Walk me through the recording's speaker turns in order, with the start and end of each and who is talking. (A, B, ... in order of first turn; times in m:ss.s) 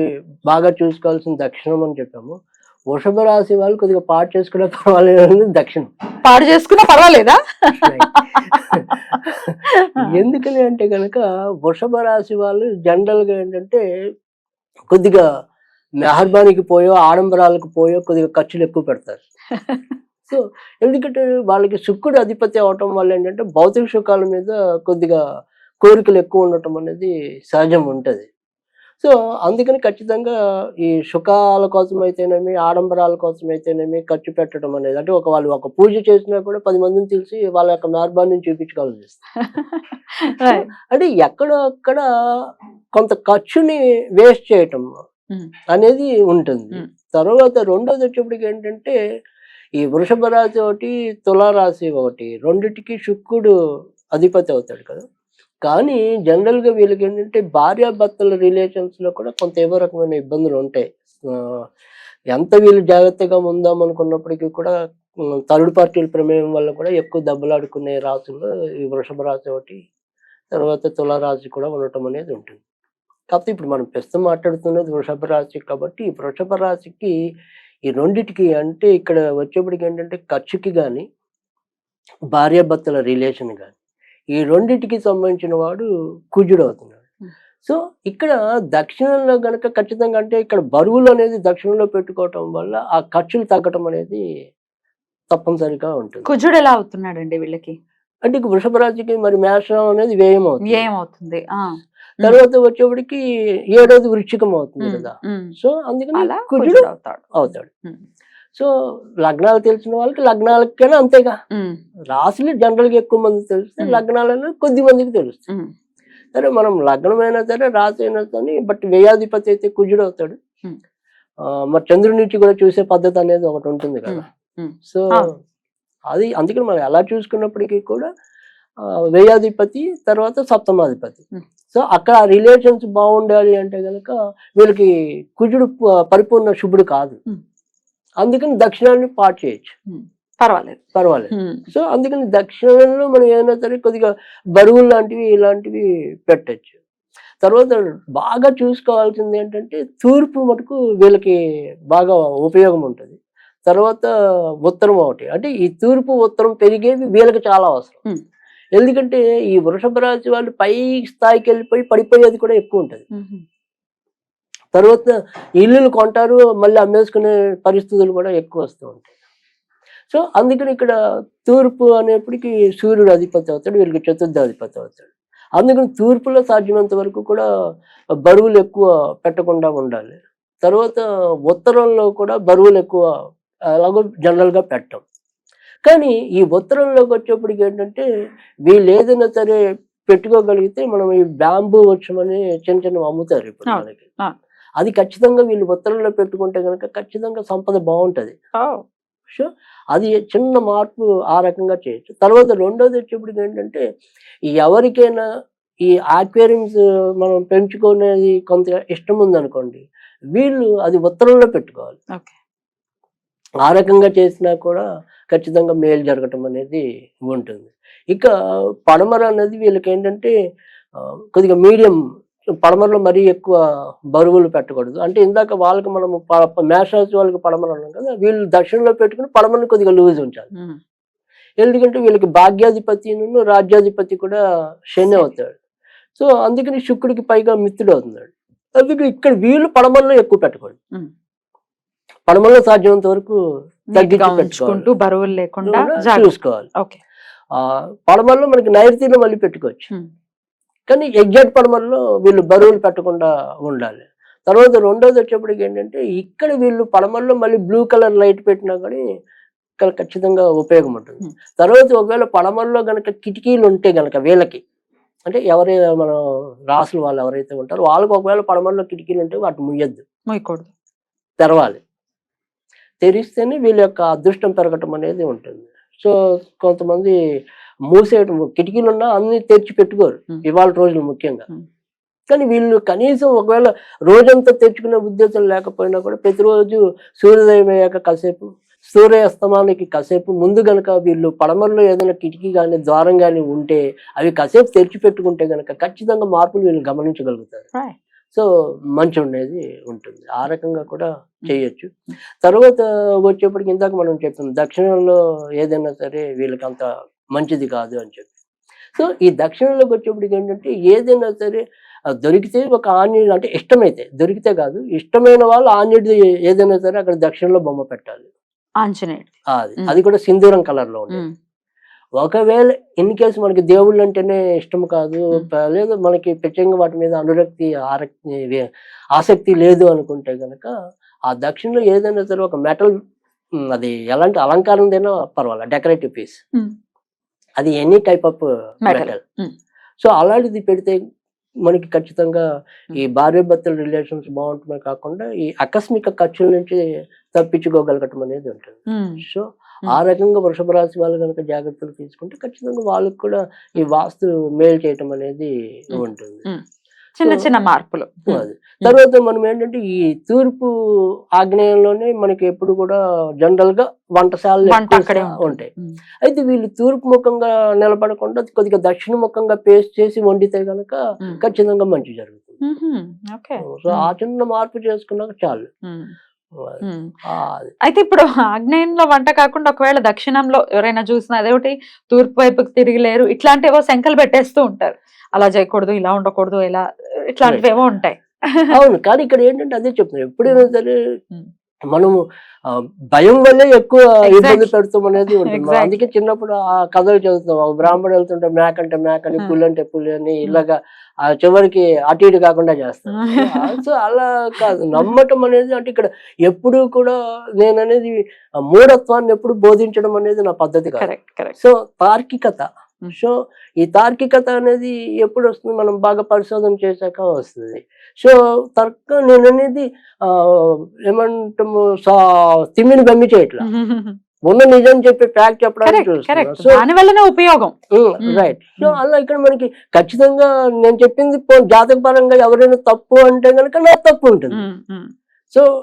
0:00.5-0:02.4 A
0:02.9-0:05.9 A
0:06.2-0:09.2 B
0:07.7-0:08.1 A
0:09.8-0:10.1 B
0:10.0-0:13.8 A
0:14.9-0:15.2 A
0:16.0-0:19.2 A
0:20.3-0:25.2 A
0:25.8-0:28.3 A
0:29.0-0:39.2 A
0:39.4-0:40.7 B
0:40.5-0:42.0 A
0:43.0-0:44.9 A
0:45.7-0:49.0 A
0:49.8-0:53.5 A
0:54.1-0:55.0 A
0:55.6-1:01.6 A
1:02.3-1:04.7 A
1:05.5-1:09.8 A
1:10.5-1:12.6 A
1:13.3-1:17.1 A
1:17.9-1:21.0 A
1:22.3-1:23.7 A
1:24.3-1:27.0 A
1:27.6-1:34.2 A
1:35.3-1:36.2 A
1:36.2-1:37.8 B
1:38.2-1:40.9 A
1:40.7-1:42.4 B
1:42.2-1:47.7 A
1:44.8-1:45.5 B
1:46.1-1:48.0 B
1:49.2-1:51.4 A
1:51.5-1:51.8 B
1:52.1-1:55.4 A
1:56.3-2:00.4 A
2:01.7-2:04.2 A
2:04.1-2:05.3 B
2:04.8-2:05.2 A
2:06.1-2:08.1 A
2:09.1-2:11.2 A
2:11.7-2:17.2 A
2:18.2-2:19.7 A
2:19.9-2:20.8 B
2:20.9-2:26.7 A
2:21.3-2:21.7 B
2:27.4-2:31.4 A
2:31.9-2:34.1 A
2:34.6-2:38.0 A
2:38.8-2:43.0 A
2:43.1-2:43.4 B
2:44.7-2:49.1 A
2:50.1-2:57.4 A
2:58.2-3:03.0 A
3:03.8-3:05.0 A
3:05.8-3:08.0 A
3:08.7-3:14.0 A
3:13.6-3:14.3 B
3:14.8-3:18.3 A
3:18.6-3:18.8 B
3:19.3-3:23.8 A
3:24.5-3:25.2 A
3:25.8-3:29.8 A
3:30.3-3:32.0 A
3:33.6-3:38.3 A
3:38.9-3:40.3 A
3:41.0-3:42.0 A
3:42.6-3:43.5 A
3:44.1-3:50.5 A
3:51.6-3:54.4 A
3:54.9-3:55.5 A
3:56.2-4:00.8 A
4:02.3-4:03.4 A
4:03.9-4:07.0 B
4:03.9-4:04.9 A
4:05.6-4:06.6 A
4:07.5-4:09.9 A
4:10.9-4:19.0 A
4:19.8-4:24.6 A
4:25.3-4:26.2 A
4:26.7-4:30.0 A
4:30.3-4:30.7 B
4:31.4-4:31.8 A
4:33.0-4:37.1 A
4:37.9-4:41.5 A
4:42.3-4:57.7 A
4:59.0-5:01.9 A
5:02.4-5:08.3 A
5:09.0-5:11.6 A
5:12.2-5:18.3 A
5:18.8-5:20.0 B
5:19.5-5:21.2 A
5:22.2-5:30.7 A
5:31.3-5:32.9 A
5:33.7-5:36.4 A
5:37.6-5:39.2 A
5:38.8-5:39.5 B
5:40.0-5:41.0 A
5:41.6-5:42.4 A
5:42.9-5:56.4 A
5:48.9-5:49.2 B
5:55.9-5:56.6 B
5:57.2-5:58.9 B
5:58.3-6:00.7 A
6:01.4-6:05.7 A
6:04.6-6:06.0 B
6:06.2-6:12.6 A
6:12.6-6:14.1 B
6:13.6-6:15.7 A
6:15.9-6:16.1 B
6:16.6-6:17.7 A
6:16.8-6:17.1 B
6:17.8-6:28.7 B
6:28.7-6:31.0 A
6:31.9-6:48.2 A
6:34.2-6:36.1 B
6:43.1-6:43.8 B
6:48.7-7:03.6 A
6:51.0-6:51.5 B
7:03.6-7:04.2 B
7:04.5-7:06.8 A
7:05.8-7:09.0 B
7:07.9-7:14.7 A
7:14.5-7:15.1 B